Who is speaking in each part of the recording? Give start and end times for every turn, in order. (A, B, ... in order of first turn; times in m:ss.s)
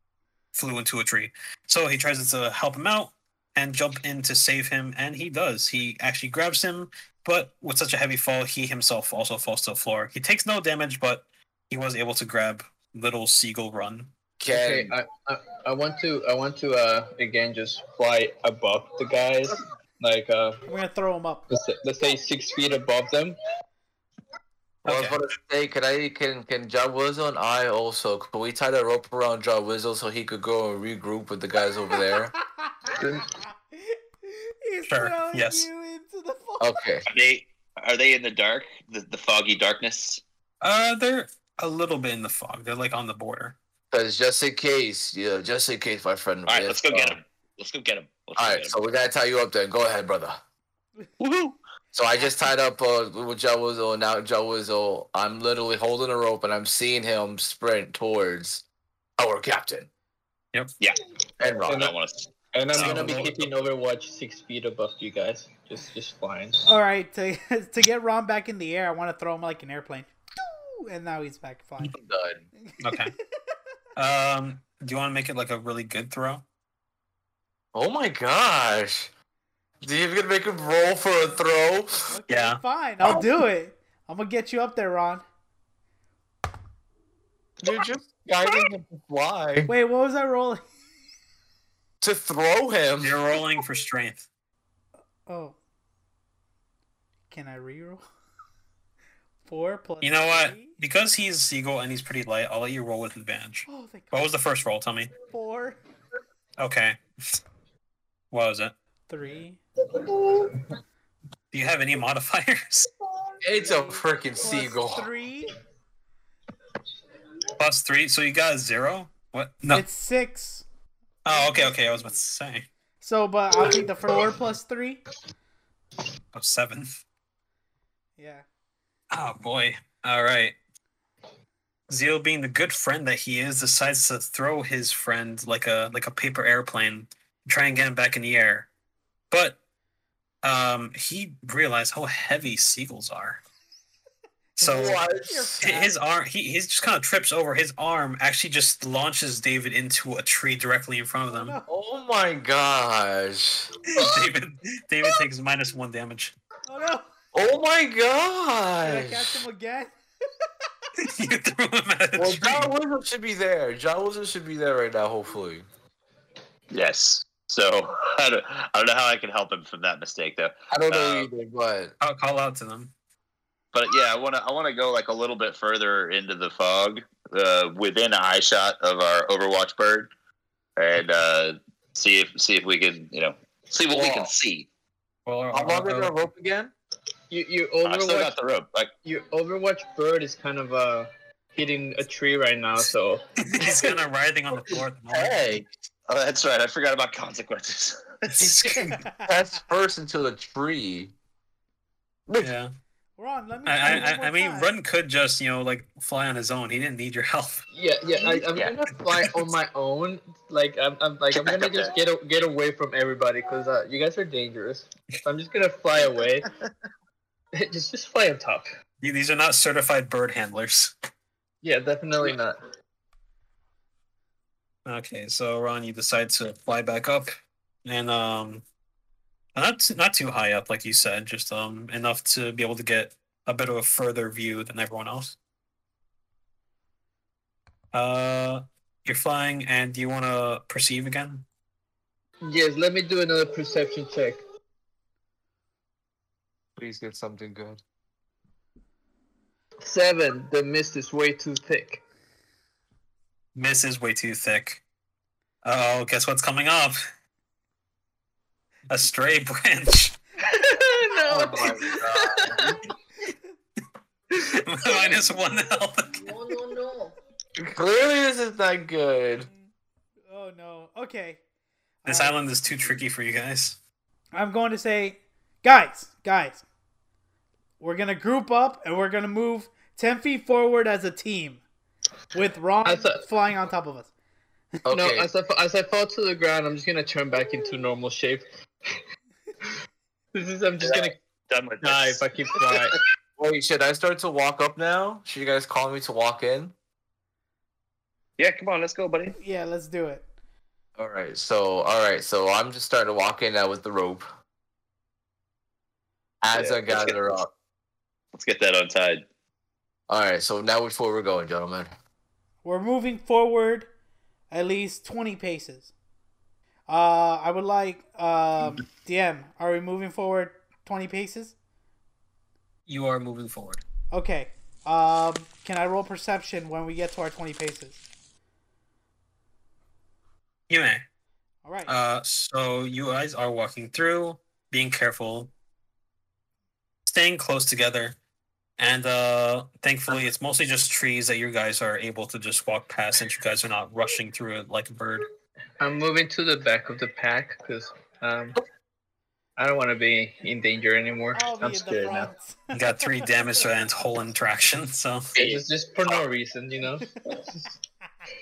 0:00.5-0:14.1 A
0:14.4-0:14.9 B
0:14.5-0:20.6 C
0:20.7-0:21.5 D
0:21.5-0:23.4 C
0:24.8-0:25.2 A
0:24.8-0:32.3 B
0:32.6-0:32.9 D
0:33.0-0:33.3 C
0:33.7-0:36.8 D
0:34.9-0:35.7 A
0:36.6-0:37.1 B
0:37.1-0:40.2 E
0:40.6-0:43.6 A
0:43.9-0:47.2 B
0:46.5-0:48.8 E
0:48.4-0:50.4 B
0:51.2-0:51.6 E
0:51.9-0:58.6 B
0:59.2-0:59.9 B
1:01.4-1:01.9 B
1:01.6-1:02.3 E
1:01.7-1:01.9 C
1:02.5-1:06.6 C
1:02.8-1:03.4 A
1:02.8-1:03.3 B
1:06.6-1:12.0 D
1:11.9-1:12.4 B
1:12.6-1:13.1 D
1:12.8-1:13.1 A
1:14.0-1:16.4 A
1:17.7-1:19.1 B
1:19.8-1:21.9 B
1:22.1-1:25.2 D
1:22.3-1:22.6 A
1:23.0-1:23.3 B
1:27.6-1:29.7 B
1:29.7-1:30.6 D
1:32.0-1:33.2 B
1:33.0-1:34.3 A
1:35.3-1:35.6 D
1:37.3-1:38.0 D
1:39.4-1:40.8 D
1:40.0-1:45.1 A
1:43.7-1:44.4 D
1:45.3-1:45.8 D
1:46.6-1:47.0 A
1:48.3-1:48.7 A
1:49.1-1:49.6 D
1:50.0-1:50.6 C
1:51.5-1:52.9 A
1:53.4-1:55.1 B
1:53.6-1:55.5 D
1:57.6-1:59.8 A
1:59.7-2:00.6 D
2:01.2-2:02.7 A
2:01.3-2:02.2 D
2:03.0-2:05.0 D
2:06.3-2:07.0 A
2:08.2-2:08.5 D
2:09.1-2:10.6 A
2:11.9-2:18.7 A
2:19.3-2:19.6 A
2:20.4-2:23.4 A
2:24.6-2:25.1 A
2:24.6-2:25.6 B
2:25.2-2:26.0 D
2:25.6-2:31.6 A
2:31.3-2:31.7 D
2:31.7-2:34.2 B
2:33.9-2:36.3 A
2:36.7-2:37.1 D
2:37.3-2:39.4 B
2:38.8-2:39.9 D
2:41.0-2:42.7 A
2:42.2-2:45.6 B
2:46.7-2:51.3 E
2:50.7-2:51.9 B
2:52.0-2:52.9 A
2:53.7-3:00.1 E
3:00.8-3:04.7 E
3:03.9-3:04.3 B
3:05.3-3:06.2 A
3:05.5-3:06.7 B
3:07.3-3:08.3 C
3:07.8-3:08.9 E
3:09.0-3:13.8 C
3:13.4-3:15.5 A
3:15.1-3:15.7 B
3:16.1-3:18.3 E
3:18.3-3:19.0 A
3:18.4-3:21.1 B
3:18.9-3:19.2 D
3:22.4-3:22.7 A
3:23.2-3:24.7 D
3:23.7-3:27.6 A
3:27.7-3:36.5 C
3:31.3-3:31.9 E
3:37.6-3:38.7 C
3:39.0-3:40.9 A
3:41.6-3:42.6 C
3:44.8-3:47.3 A
3:47.8-3:48.6 A
3:49.6-3:55.4 A
3:57.9-4:01.4 A
4:02.4-4:04.4 C
4:06.8-4:07.8 B
4:09.8-4:12.0 C
4:13.6-4:14.8 A
4:15.6-4:17.0 A
4:18.9-4:20.2 A
4:20.4-4:22.8 C
4:21.3-4:22.8 B
4:21.3-4:21.7 D
4:24.4-4:26.3 A
4:26.3-4:27.1 C
4:27.6-4:29.5 B
4:30.3-4:31.4 D
4:32.0-4:32.4 D
4:32.1-4:33.8 A
4:34.4-4:36.6 D
4:37.8-4:41.6 D
4:42.3-4:44.1 D
4:42.8-4:43.2 C
4:44.8-4:45.3 B
4:44.9-4:48.4 C
4:50.3-4:51.2 C
4:50.8-4:52.9 E
4:51.8-4:53.0 C
4:53.4-4:56.7 B
4:58.4-4:59.4 E
4:59.4-5:00.3 D
5:01.0-5:04.3 B
5:06.4-5:07.5 B
5:06.5-5:07.2 E
5:08.3-5:09.2 E
5:10.1-5:11.9 B
5:12.6-5:13.9 D
5:14.5-5:15.9 D
5:16.9-5:21.6 D
5:22.9-5:23.8 A
5:24.1-5:28.0 D
5:30.7-5:31.0 A
5:31.6-5:32.0 D
5:31.9-5:35.5 A
5:37.1-5:38.2 A
5:38.8-5:45.3 A
5:45.8-5:48.6 C
5:49.6-5:52.3 C
5:51.4-5:53.3 D
5:52.7-5:55.3 A
5:55.4-5:57.7 C